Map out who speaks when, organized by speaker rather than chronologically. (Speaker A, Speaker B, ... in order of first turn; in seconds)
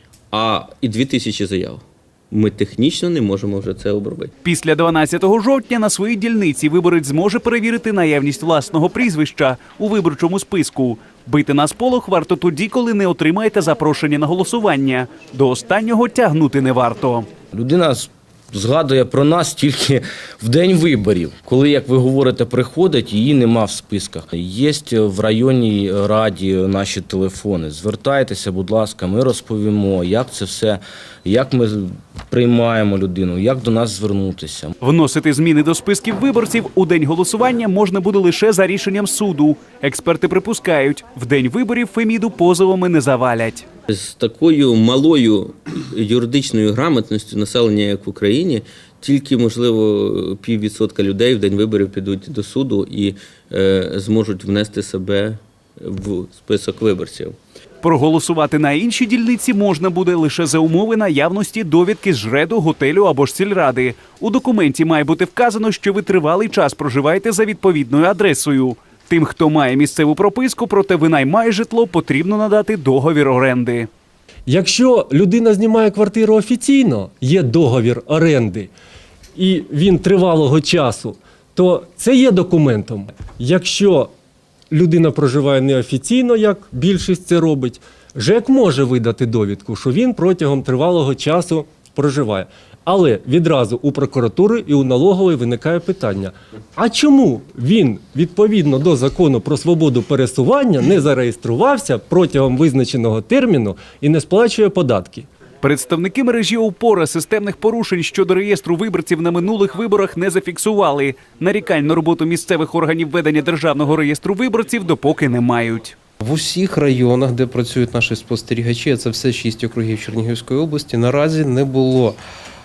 Speaker A: 0.3-4.3, 43.9-57.4
Speaker B: 4.4-17.3, 34.8-43.7, 57.8-73.9, 105.6-116.0
Speaker C: 17.5-34.7
Speaker D: 74.5-78.7, 79.4-84.1, 84.7-105.3
Speaker E: 116.2-122.2